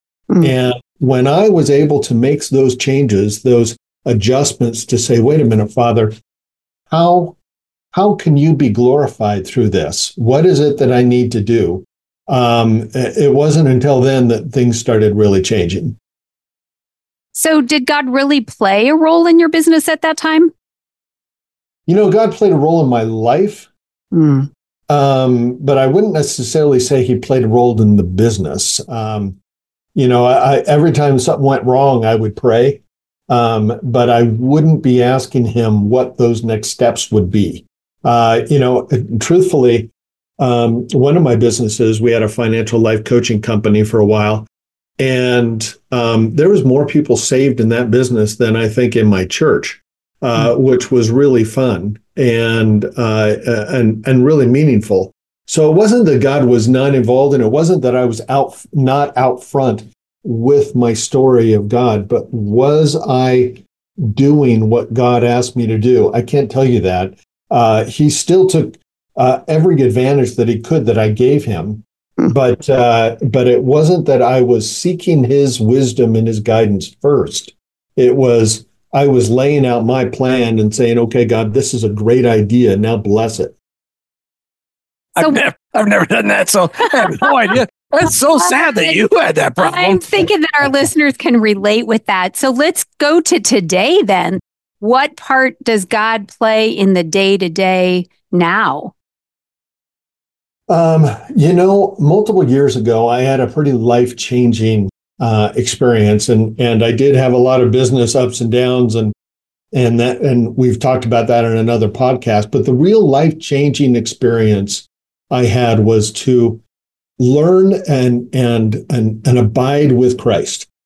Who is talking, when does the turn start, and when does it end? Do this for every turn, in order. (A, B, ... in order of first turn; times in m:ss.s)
0:00.3-0:00.5 A
0:00.4-0:06.1 B
0:06.9-0:07.4 B
0:07.9-0:16.0 B
0:17.3-0:20.5 A
0:21.9-0:23.7 B
0:24.1-0:24.5 A
0:24.9-0:29.4 B
0:29.9-0:44.4 B
0:45.0-1:23.5 B
1:25.2-1:30.2 C
1:25.2-1:25.4 A
1:27.2-1:27.6 A
1:28.4-1:29.0 A
1:29.6-1:38.9 A
1:40.7-1:49.1 B
1:49.7-1:56.6 B
1:57.2-2:00.7 B